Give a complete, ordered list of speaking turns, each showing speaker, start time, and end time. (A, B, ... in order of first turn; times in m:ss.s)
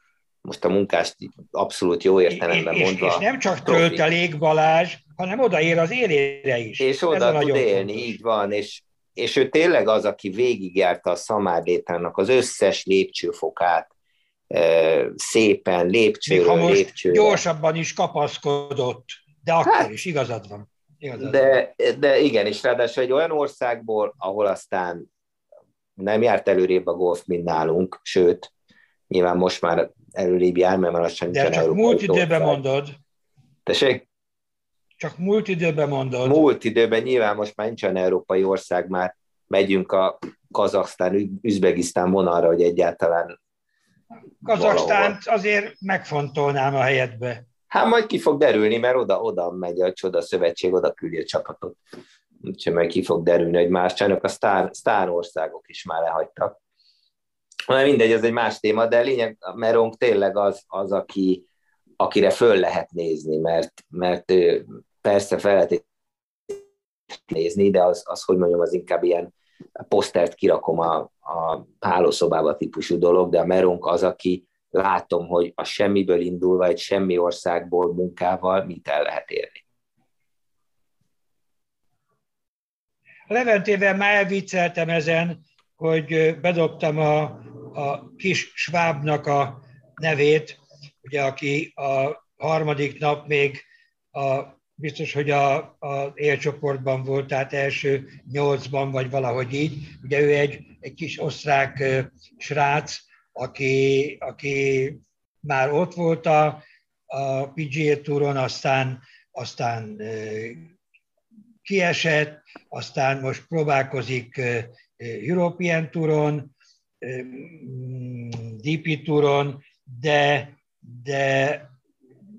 0:00.4-0:04.0 A
0:02.3-0:08.2 B
0:06.8-0:13.9 A
0:14.5-0:17.4 A
0:16.3-0:21.6 B
0:21.2-0:25.1 A
0:26.0-0:28.5 A
0:29.1-0:32.6 A
0:31.3-0:33.0 B
0:33.7-0:34.0 A
0:35.0-0:36.4 B
0:36.2-0:43.3 A
0:44.4-0:47.4 B
0:44.4-0:45.2 A
0:47.7-0:51.8 A
0:52.4-0:56.6 A
0:57.7-1:01.4 A
1:02.0-1:05.8 A
1:07.3-1:09.3 A
1:09.9-1:19.6 A
1:23.3-1:50.7 B
1:51.6-2:01.7 B